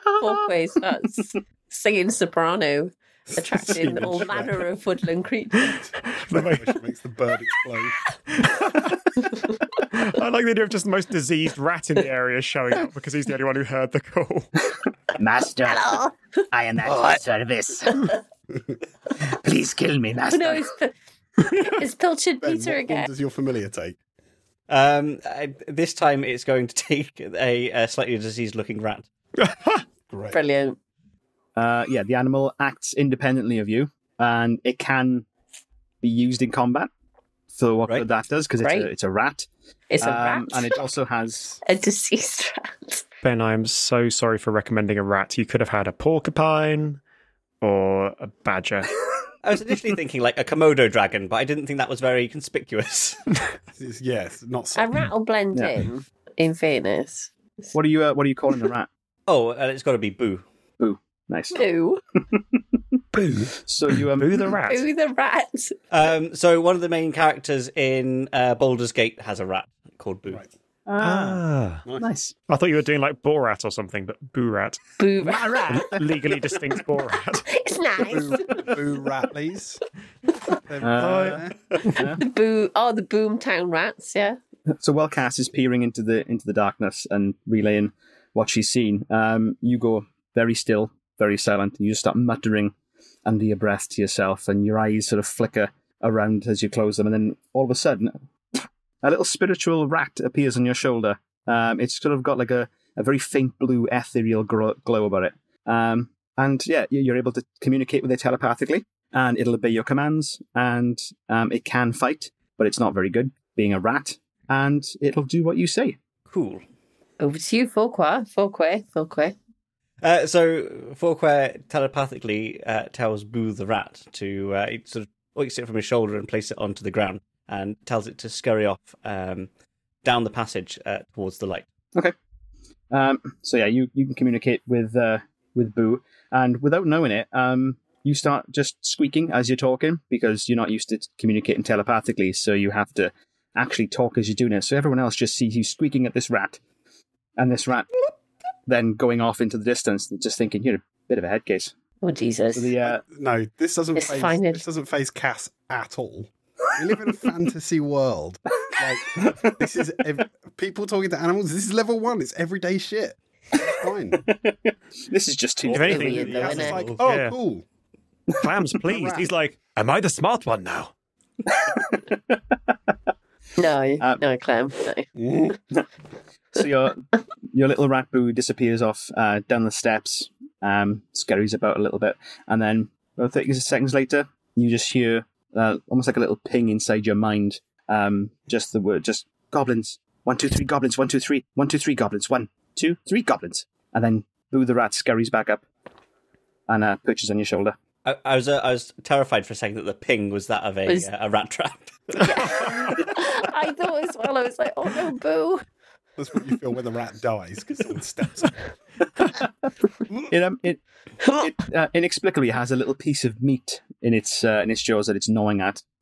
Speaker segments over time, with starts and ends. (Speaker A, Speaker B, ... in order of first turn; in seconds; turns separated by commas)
Speaker A: 0.2-5.7, Speaker B: 3.3-4.7, Speaker B: 5.6-8.0, Speaker C: 5.6-6.8, Speaker C: 8.3-9.0, Speaker C: 9.8-14.5, Speaker D: 15.2-16.0, Speaker A: 15.6-16.4, Speaker D: 16.5-18.1, Speaker B: 16.8-17.2, Speaker D: 19.3-20.7, Speaker A: 20.3-20.9, Speaker A: 21.7-23.1, Speaker B: 22.4-24.0, Speaker E: 24.7-29.1, Speaker C: 29.4-29.8, Speaker B: 30.1-30.4, Speaker A: 30.3-30.8, Speaker F: 31.6-35.3, Speaker F: 36.0-36.9, Speaker F: 37.5-39.5, Speaker A: 38.6-38.9, Speaker A: 39.9-40.8, Speaker F: 40.0-41.6, Speaker A: 41.6-43.0, Speaker C: 43.2-47.0, Speaker C: 47.6-48.9, Speaker E: 49.4-53.2, Speaker B: 53.7-54.9, Speaker A: 54.8-57.7, Speaker F: 55.5-55.8, Speaker F: 57.7-58.9, Speaker E: 59.3-60.4, Speaker F: 60.8-61.6, Speaker A: 61.5-62.0, Speaker C: 63.1-64.9, Speaker F: 63.5-64.6, Speaker A: 64.6-65.8, Speaker E: 65.9-70.4, Speaker F: 70.9-72.4, Speaker C: 71.0-71.8, Speaker C: 72.5-74.8, Speaker A: 75.0-75.8, Speaker C: 75.3-77.5, Speaker A: 77.5-78.8, Speaker B: 78.0-79.8, Speaker B: 80.5-81.7, Speaker F: 80.8-82.2, Speaker C: 81.0-82.1, Speaker A: 81.9-84.4, Speaker F: 84.7-92.7, Speaker F: 93.3-98.2, Speaker F: 99.0-116.0, Speaker E: 116.3-116.6, Speaker A: 117.2-119.3, Speaker E: 120.0-129.5, Speaker E: 130.0-131.7, Speaker F: 132.9-146.6, Speaker F: 147.4-148.0, Speaker F: 148.7-151.7, Speaker A: 152.0-152.8, Speaker F: 152.5-153.0, Speaker B: 152.8-164.2, Speaker A: 154.0-154.7, Speaker F: 159.2-159.5, Speaker F: 163.6-166.8, Speaker C: 165.7-167.3, Speaker A: 165.7-166.9, Speaker B: 165.7-167.7, Speaker C: 168.4-170.9, Speaker B: 168.8-169.3, Speaker F: 171.5-172.4, Speaker A: 173.6-175.1, Speaker F: 175.3-175.9, Speaker F: 176.5-195.7, Speaker F: 196.7-197.8, Speaker E: 198.1-202.5, Speaker A: 202.2-205.7, Speaker B: 206.2-208.6, Speaker F: 210.3-210.8, Speaker F: 211.3-215.8